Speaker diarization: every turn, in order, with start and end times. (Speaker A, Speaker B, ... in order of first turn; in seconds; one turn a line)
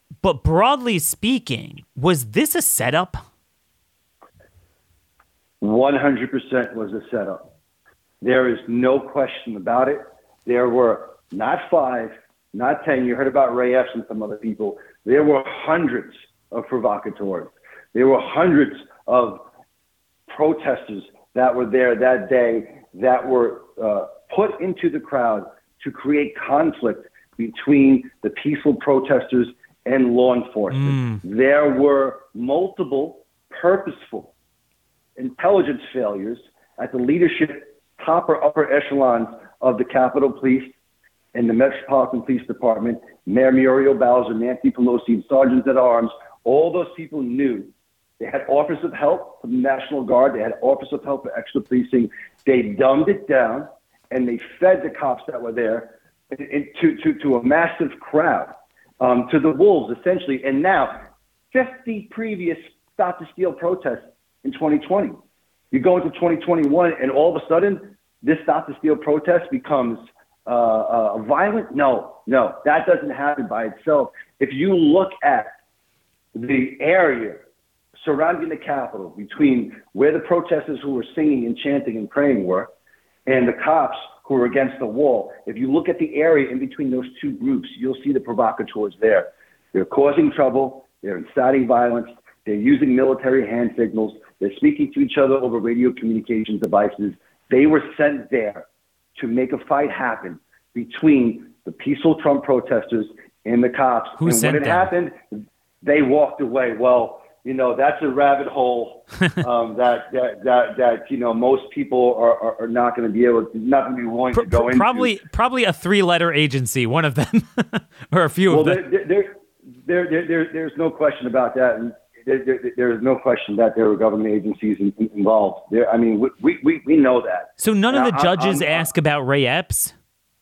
Speaker A: 0.2-3.2
Speaker B: 5.6-7.5
Speaker B: 8.2-19.4
Speaker B: 20.3-34.3
Speaker A: 30.7-31.2
Speaker B: 35.2-40.7
Speaker B: 41.3-65.2
Speaker B: 65.7-75.5
Speaker B: 76.3-77.4
Speaker B: 78.0-82.7
Speaker B: 83.2-98.6
Speaker B: 99.2-105.2
Speaker A: 104.2-104.9
Speaker B: 105.8-115.1
Speaker A: 114.3-118.8
Speaker B: 118.5-119.3
Speaker B: 119.8-128.9
Speaker A: 127.6-129.9